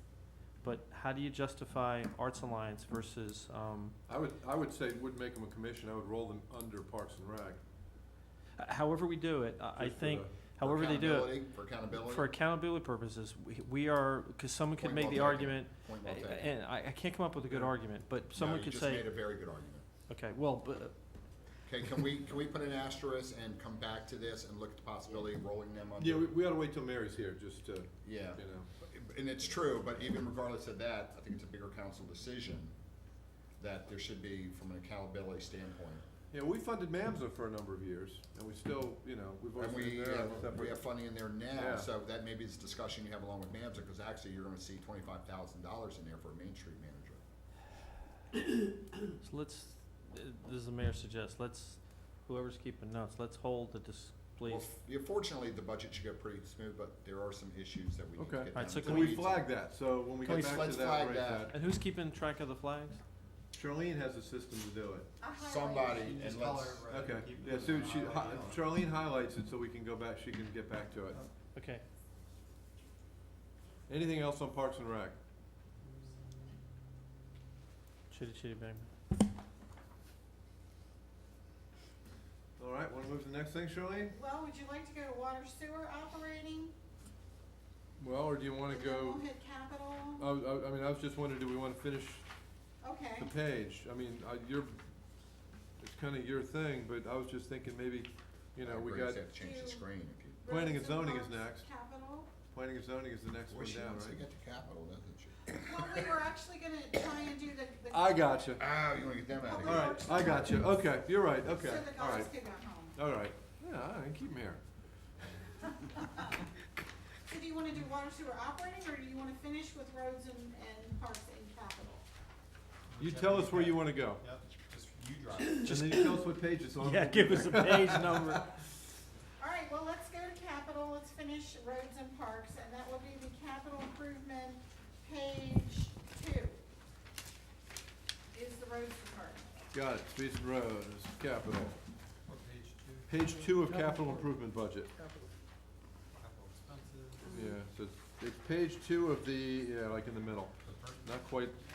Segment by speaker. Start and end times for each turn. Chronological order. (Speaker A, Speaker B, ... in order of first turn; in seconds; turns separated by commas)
Speaker A: 0.6-4.0, Speaker B: 4.1-7.6, Speaker A: 8.6-19.1, Speaker B: 9.8-10.3, Speaker C: 10.6-12.3, Speaker C: 14.8-16.5, Speaker C: 18.3-19.9, Speaker A: 20.1-20.9, Speaker C: 21.6-26.3, Speaker B: 26.0-28.7, Speaker C: 28.0-32.7, Speaker C: 33.6-36.0, Speaker B: 36.3-40.9, Speaker C: 39.5-47.2, Speaker B: 41.5-41.9, Speaker A: 49.2-54.7, Speaker C: 54.4-59.5, Speaker B: 58.2-61.5, Speaker A: 58.5-59.2, Speaker C: 60.2-61.5, Speaker A: 60.2-60.6, Speaker A: 61.5-63.0, Speaker B: 63.5-65.1, Speaker D: 65.2-66.1, Speaker C: 65.4-66.9, Speaker E: 65.9-68.7, Speaker B: 66.9-71.2, Speaker C: 67.5-68.6, Speaker A: 71.5-71.8, Speaker B: 73.9-75.2, Speaker A: 78.1-78.9, Speaker B: 82.6-84.1, Speaker D: 84.1-86.7, Speaker B: 88.0-89.2, Speaker D: 88.7-90.3, Speaker B: 90.2-92.2, Speaker D: 92.8-93.3, Speaker B: 93.2-94.8, Speaker B: 95.8-99.2, Speaker C: 98.6-100.4, Speaker D: 99.3-99.8, Speaker D: 100.4-102.3, Speaker B: 100.5-101.7, Speaker B: 102.5-104.2, Speaker C: 103.5-106.1, Speaker D: 105.5-108.6, Speaker B: 107.9-108.6, Speaker C: 108.6-110.8, Speaker D: 109.3-110.7, Speaker B: 109.6-112.3, Speaker D: 111.5-113.0, Speaker B: 112.9-114.6, Speaker D: 115.8-116.2, Speaker D: 117.3-122.1, Speaker E: 122.9-125.8, Speaker B: 123.0-124.2, Speaker B: 125.6-128.5, Speaker A: 125.7-126.0, Speaker A: 126.8-128.5, Speaker D: 129.4-136.6, Speaker D: 138.3-139.6, Speaker B: 139.7-141.8, Speaker E: 142.2-143.1, Speaker B: 143.1-144.9, Speaker A: 143.6-144.3, Speaker A: 144.9-145.2, Speaker E: 146.1-147.4, Speaker B: 147.3-151.6, Speaker E: 150.6-151.2